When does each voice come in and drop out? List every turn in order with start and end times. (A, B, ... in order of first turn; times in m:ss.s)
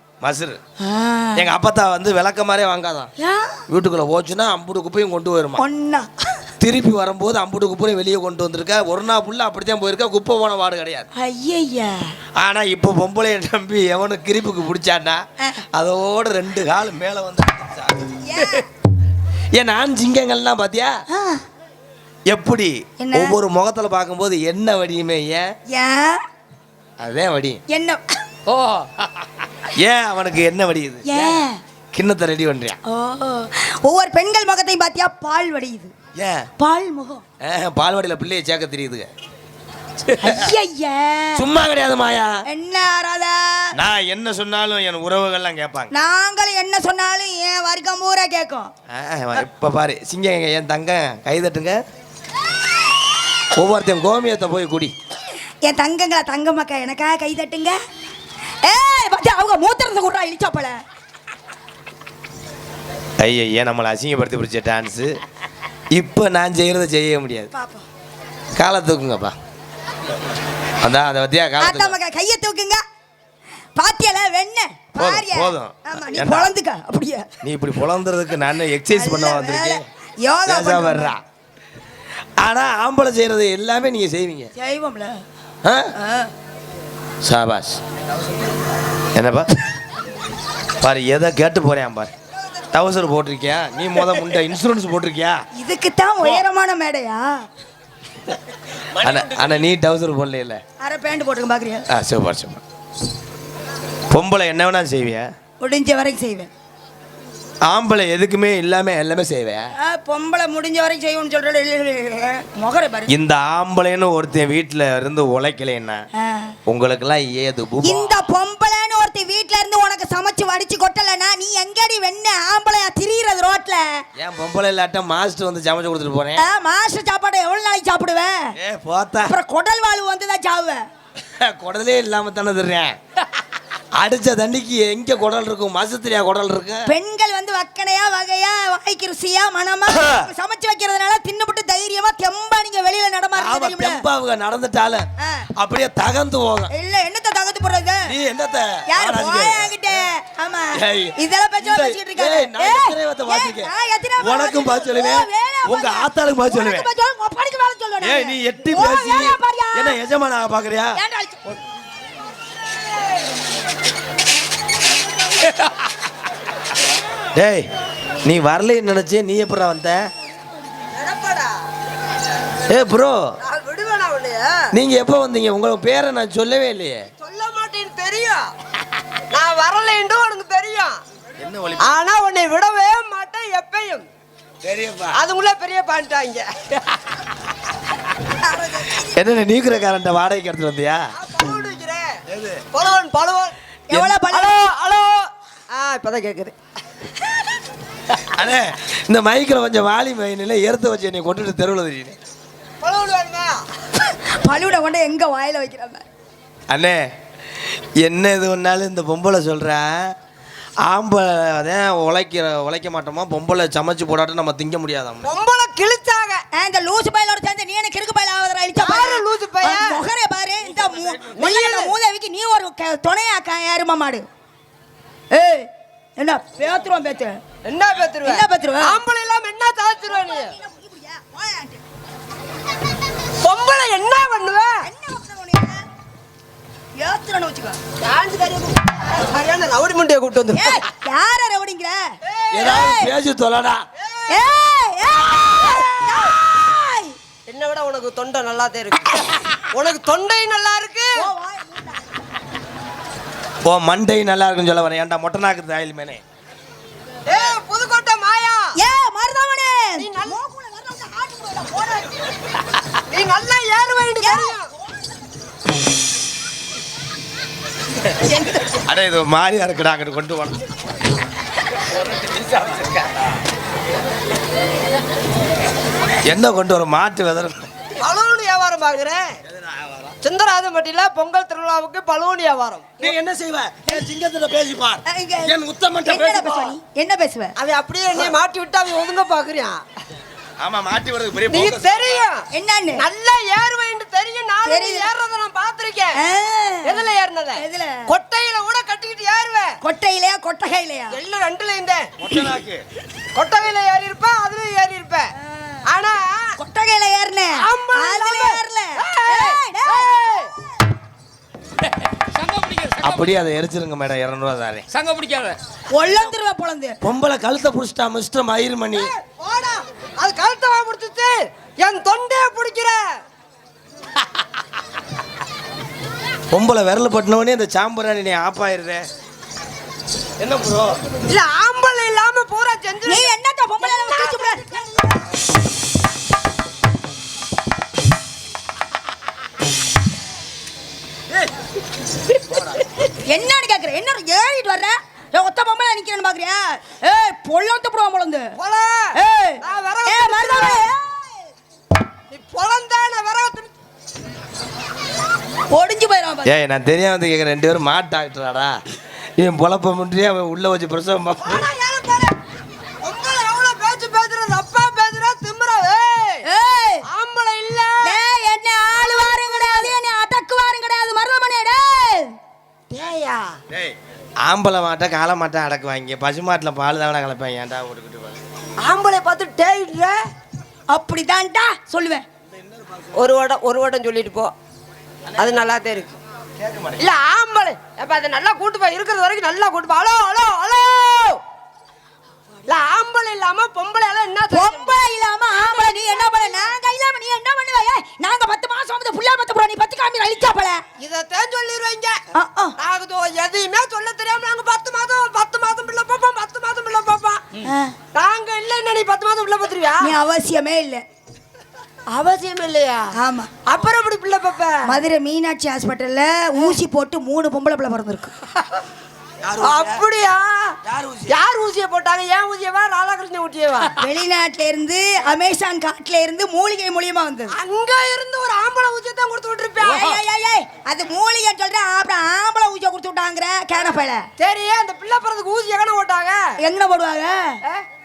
0:00.2-0:00.6 A
0:00.8-0:01.5 B
0:01.4-0:03.1 A
0:03.2-0:03.6 B
0:03.7-0:05.6 A
0:05.6-0:06.1 B
0:06.6-0:11.1 A
0:11.1-0:12.2 B
0:12.4-0:18.5 A
0:18.2-0:18.6 B
0:19.5-0:21.0 A
0:21.1-0:21.4 B
0:22.3-0:25.5 A
0:23.0-0:23.4 B
0:25.7-0:26.2 B
0:27.0-0:27.6 A
0:27.7-0:28.2 B
0:28.5-0:29.1 C
0:29.8-0:31.3 A
0:31.0-0:31.6 B
0:31.9-0:32.8 A
0:32.8-0:35.9 B
0:36.2-0:36.5 A
0:36.6-0:37.2 B
0:37.4-0:39.1 A
0:40.1-0:40.4 A
0:40.2-0:41.4 B
0:41.4-0:42.4 A
0:42.5-0:43.7 B
0:43.7-0:45.9 A
0:45.9-0:48.7 B
0:48.9-0:51.8 A
0:53.6-0:54.9 A
0:55.6-0:57.8 B
0:58.6-1:00.8 B
1:03.2-1:05.2 A
1:05.9-1:07.5 A
1:07.5-1:07.8 B
1:08.6-1:09.4 A
1:10.8-1:11.9 A
1:11.6-1:12.8 B
1:13.8-1:17.3 B
1:15.0-1:16.5 A
1:17.4-1:19.8 A
1:18.9-1:21.1 B
1:20.5-1:21.2 A
1:22.4-1:24.5 A
1:24.6-1:25.2 B
1:25.6-1:25.9 A
1:26.0-1:26.3 B
1:27.2-1:27.8 A
1:29.1-1:29.5 A
1:30.8-1:32.1 A
1:32.7-1:35.4 A
1:35.5-1:37.4 B
1:39.0-1:40.6 A
1:40.8-1:41.8 B
1:41.9-1:42.6 A
1:44.1-1:45.3 A
1:45.6-1:46.5 B
1:47.6-1:49.7 A
1:49.8-1:53.1 B
1:53.1-1:56.0 A
1:56.2-1:56.5 B
1:56.7-1:58.1 A
1:57.8-2:04.0 B
2:04.2-2:06.4 A
2:06.4-2:08.5 B
2:08.6-2:09.3 A
2:09.2-2:10.8 B
2:11.4-2:13.0 A
2:14.0-2:16.9 A
2:16.9-2:24.0 B
2:19.9-2:20.3 A
2:23.4-2:25.1 A
2:25.2-2:25.5 B
2:25.6-2:26.7 A
2:26.7-2:28.1 B
2:28.0-2:29.7 A
2:28.9-2:40.0 B
2:30.7-2:36.9 A
2:38.0-2:41.0 A
2:41.0-2:41.5 B
2:47.3-2:47.7 A
2:48.2-2:50.1 A
2:50.9-2:51.5 D
2:52.7-2:53.3 A
2:53.4-2:54.7 D
2:54.7-2:57.1 A
2:57.2-2:58.5 D
2:59.3-3:01.0 D
3:01.4-3:01.9 A
3:01.8-3:04.0 D
3:04.6-3:05.2 A
3:05.1-3:06.8 D
3:08.4-3:09.1 B
3:09.1-3:11.1 A
3:11.1-3:12.2 D
3:12.3-3:12.6 A
3:12.7-3:13.5 D
3:13.9-3:14.7 B
3:14.3-3:16.5 D
3:18.2-3:22.2 A
3:22.8-3:23.6 D
3:24.2-3:26.0 B
3:26.7-3:27.0 A
3:27.6-3:30.1 A
3:30.8-3:35.3 A
3:35.2-3:36.4 D
3:36.5-3:44.2 B
3:38.8-3:40.0 D
3:41.3-3:41.9 D
3:45.3-3:47.4 B
3:47.6-3:50.5 D
3:48.2-3:49.0 B
3:50.1-3:51.8 B
3:53.4-3:54.7 D
3:54.8-3:55.8 B
3:57.0-3:57.8 B
3:58.0-4:00.8 D
4:00.5-4:03.1 B
4:02.5-4:03.8 A
4:04.0-4:04.3 D
4:04.3-4:07.2 B
4:05.7-4:06.0 D
4:07.5-4:11.3 D
4:11.1-4:12.0 B
4:13.6-4:16.2 A
4:17.3-4:18.7 D
4:18.8-4:22.1 B
4:20.0-4:20.4 D
4:23.1-4:24.7 D
4:24.2-4:24.6 B
4:28.3-4:28.6 B
4:28.8-4:30.7 A
4:32.3-4:33.1 A
4:36.2-4:37.7 A
4:38.0-4:39.3 D
4:39.5-4:40.1 A
4:40.2-4:42.9 D
4:43.0-4:46.7 A
4:45.1-4:45.5 B
4:46.0-4:47.5 B
4:47.6-4:49.8 D
4:50.6-4:52.2 A
4:51.5-4:56.2 D
4:52.5-4:53.0 B
4:54.6-4:55.1 B
4:56.1-4:58.1 B
4:56.8-4:59.8 D
4:59.8-5:01.2 B
5:01.1-5:02.1 D
5:02.2-5:02.8 A
5:03.3-5:05.3 D
5:05.5-5:05.8 B
5:05.8-5:06.6 D
5:06.6-5:10.1 B
5:07.6-5:10.5 D
5:12.3-5:13.4 C
5:13.0-5:14.8 A
5:14.9-5:15.6 C
5:15.9-5:17.0 B
5:17.0-5:19.1 A
5:19.0-5:23.0 D
5:26.5-5:29.0 A
5:30.4-5:31.0 A
5:31.3-5:35.2 D
5:33.0-5:34.6 B
5:42.5-5:42.8 A
5:43.3-5:48.5 B
5:48.6-5:50.9 D
5:49.1-5:51.4 B
5:52.3-5:53.7 D
5:55.7-5:56.5 B
5:56.4-5:58.8 A
5:59.4-6:01.6 A
6:01.4-6:02.4 D
6:03.0-6:06.5 D
6:06.4-6:07.0 B
6:07.0-6:08.2 D
6:08.0-6:12.4 B
6:09.0-6:09.9 D
6:12.9-6:13.6 D
6:13.7-6:18.4 A
6:18.8-6:20.2 D
6:20.9-6:22.2 B
6:23.1-6:24.5 D
6:25.4-6:26.2 D
6:26.7-6:27.0 A
6:27.0-6:31.4 D
6:32.6-6:35.0 D
6:34.5-6:40.8 B
6:35.5-6:36.7 D
6:41.0-6:42.2 D
6:42.3-6:42.7 B
6:42.8-6:47.4 D
6:47.6-6:48.0 B
6:48.1-6:50.1 D
6:50.0-6:51.0 B
6:52.1-6:53.1 D
6:53.1-6:53.5 B
6:53.6-6:55.0 D
6:54.8-6:58.3 B
6:59.4-7:00.0 A
6:59.6-7:04.0 D
7:00.8-7:01.3 A
7:04.0-7:07.6 B
7:07.5-7:10.2 D
7:09.8-7:14.2 B
7:14.4-7:16.4 D
7:16.6-7:17.6 B